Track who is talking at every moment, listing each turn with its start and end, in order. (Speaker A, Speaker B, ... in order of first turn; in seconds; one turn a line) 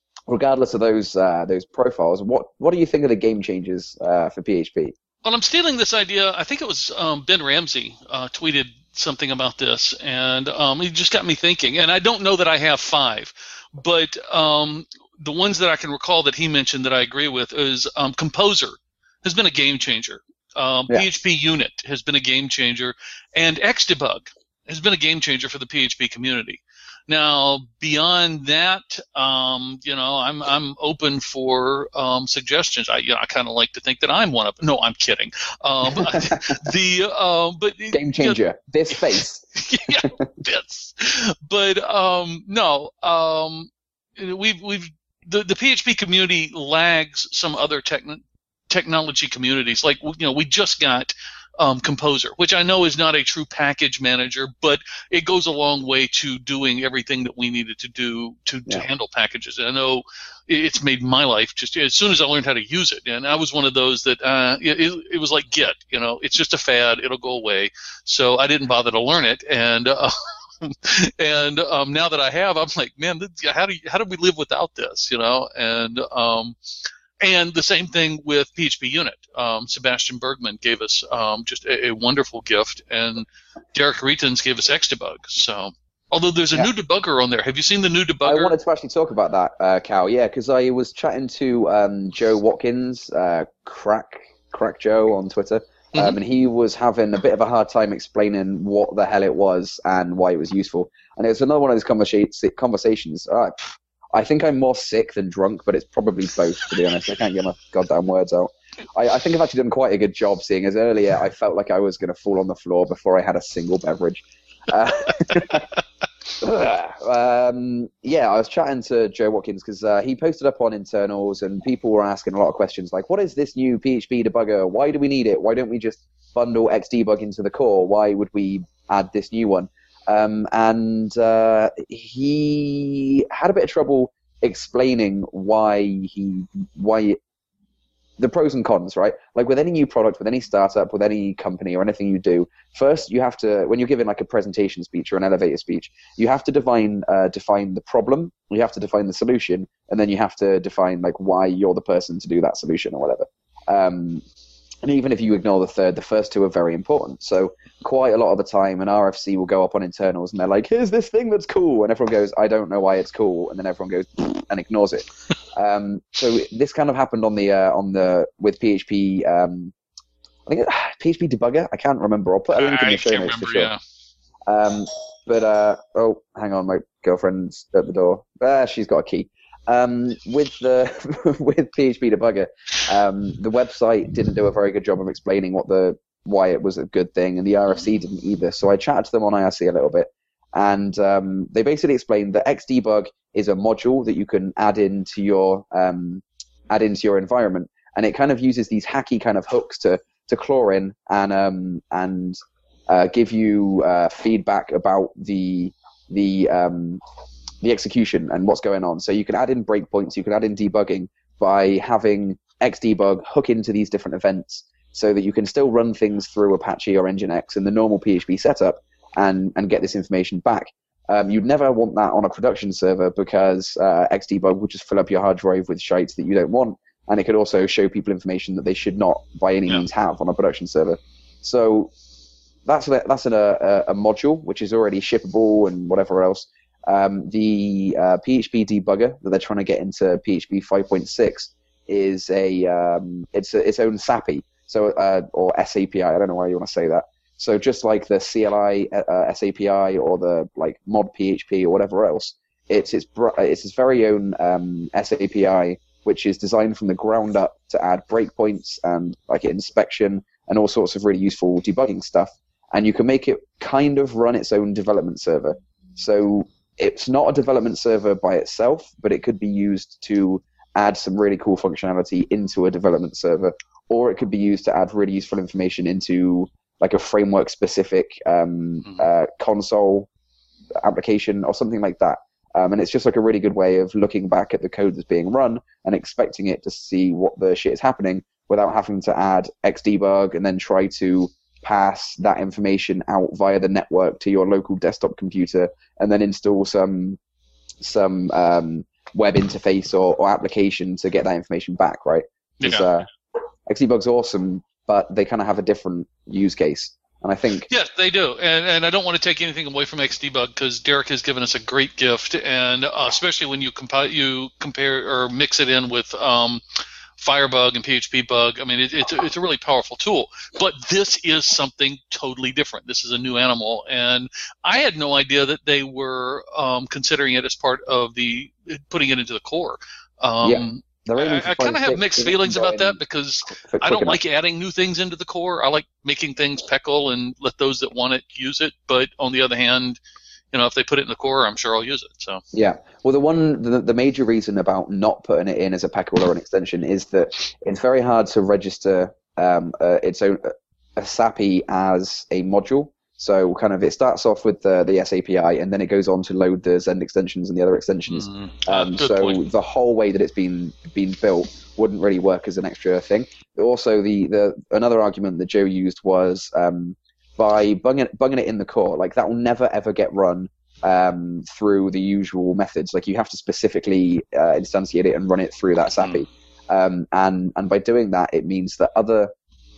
Speaker A: 0.3-5.0
Speaker B: 5.2-38.4
Speaker A: 35.9-36.7
Speaker A: 37.9-39.4
Speaker B: 38.9-76.6
Speaker B: 77.2-88.6
Speaker A: 88.2-115.7
Speaker A: 116.4-137.2
Speaker A: 138.2-154.2
Speaker A: 154.8-169.7
Speaker A: 170.5-173.7
Speaker B: 172.6-173.8
Speaker A: 174.5-207.0
Speaker A: 207.6-231.9
Speaker A: 232.7-280.1
Speaker A: 280.8-297.2
Speaker A: 297.8-303.1
Speaker B: 302.6-302.9
Speaker A: 303.7-307.7
Speaker B: 307.7-316.6
Speaker B: 317.2-340.0
Speaker A: 330.4-333.0
Speaker A: 333.5-334.2
Speaker B: 340.5-342.4
Speaker A: 342.5-379.3
Speaker B: 358.1-359.4
Speaker B: 376.0-376.2